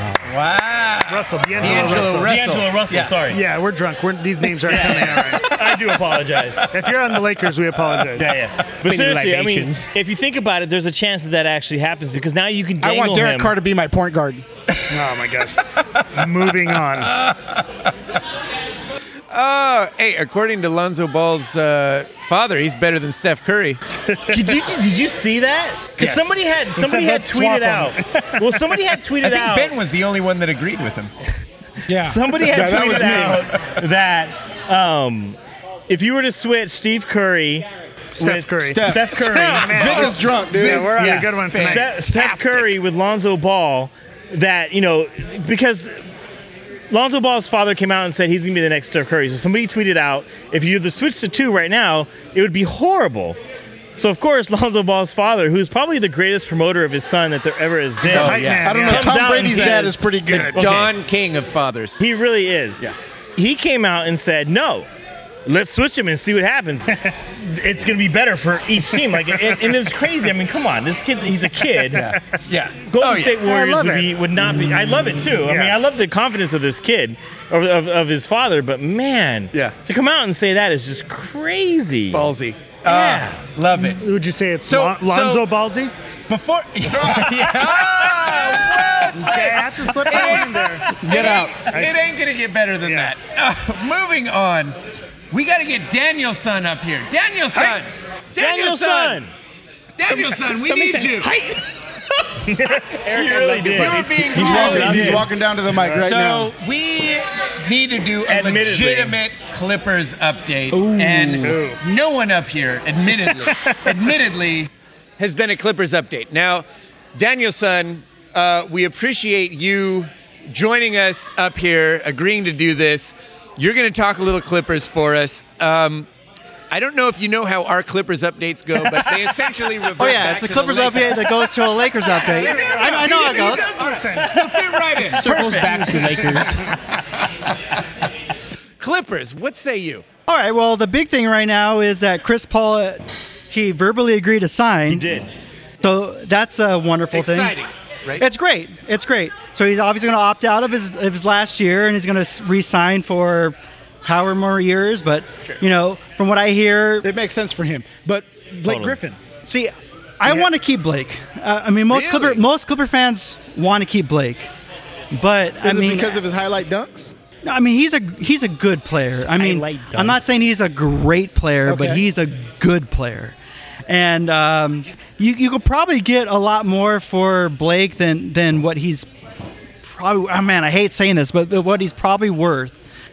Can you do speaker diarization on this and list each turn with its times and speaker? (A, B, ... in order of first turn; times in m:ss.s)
0:00.2-0:03.2 A
0:01.1-0:02.5 B
0:01.8-0:03.4 C
0:03.3-0:05.5 B
0:04.7-0:06.6 C
0:04.7-0:05.2 A
0:06.7-0:08.4 B
0:08.2-0:13.5 C
0:08.9-0:09.9 D
0:12.8-0:14.4 E
0:14.9-0:17.2 B
0:17.0-0:17.9 A
0:19.3-0:23.8 A
0:24.1-0:24.5 B
0:24.3-0:29.7 C
0:26.0-0:28.8 B
0:29.2-0:31.1 A
0:31.9-0:33.5 E
0:32.0-0:35.4 C
0:32.9-0:33.7 A
0:35.9-0:37.7 C
0:38.2-0:41.9 B
0:38.2-0:39.2 E
0:38.2-0:40.1 C
0:39.6-0:42.7 A
0:39.7-0:41.2 E
0:41.0-0:45.9 C
0:46.9-0:53.4 C
0:53.9-1:00.0 C
0:58.0-1:00.0 B
0:58.0-1:02.0 A
0:58.6-1:00.8 E
1:00.6-1:00.9 C
1:02.0-1:02.8 C
1:03.4-1:04.9 C
1:05.5-1:12.2 C
1:09.1-1:09.6 B
1:12.0-1:13.4 A
1:12.9-1:22.3 C
1:13.4-1:15.8 B
1:22.1-1:24.0 A
1:22.9-1:23.4 C
1:24.0-1:25.9 B
1:24.7-1:25.5 A
1:26.3-1:34.8 A
1:27.2-1:28.3 C
1:29.1-1:32.1 B
1:31.1-1:31.5 E
1:32.8-1:33.1 B
1:35.3-1:39.2 A
1:38.4-1:39.3 C
1:40.0-1:41.3 A
1:40.7-1:41.5 D
1:42.4-1:45.2 C
1:43.2-1:45.2 D
1:43.5-1:45.3 A
1:44.3-1:46.5 E
1:44.4-1:45.1 B
1:46.0-1:56.6 A
1:48.3-1:49.2 C
1:50.8-1:51.4 F
1:51.4-1:51.8 B
1:53.2-1:53.8 B
1:57.2-2:06.1 A
2:06.7-2:15.5 A
2:10.0-2:13.7 F
2:12.3-2:16.4 B
2:15.0-2:16.6 D
2:18.8-2:20.0 A
2:20.3-2:25.1 F
2:24.9-2:25.3 C
2:25.8-2:27.6 F
2:27.1-2:28.2 A
2:28.2-2:37.1 F
2:37.0-2:39.2 E
2:38.7-2:39.0 C
2:39.4-2:44.5 F
2:40.2-2:40.5 E
2:41.9-2:42.4 A
2:45.1-2:46.2 F
2:45.6-2:47.1 E
2:47.4-2:53.4 F
2:49.2-2:50.2 D
2:51.7-2:52.0 E
2:53.9-2:59.1 F
2:59.8-3:02.8 F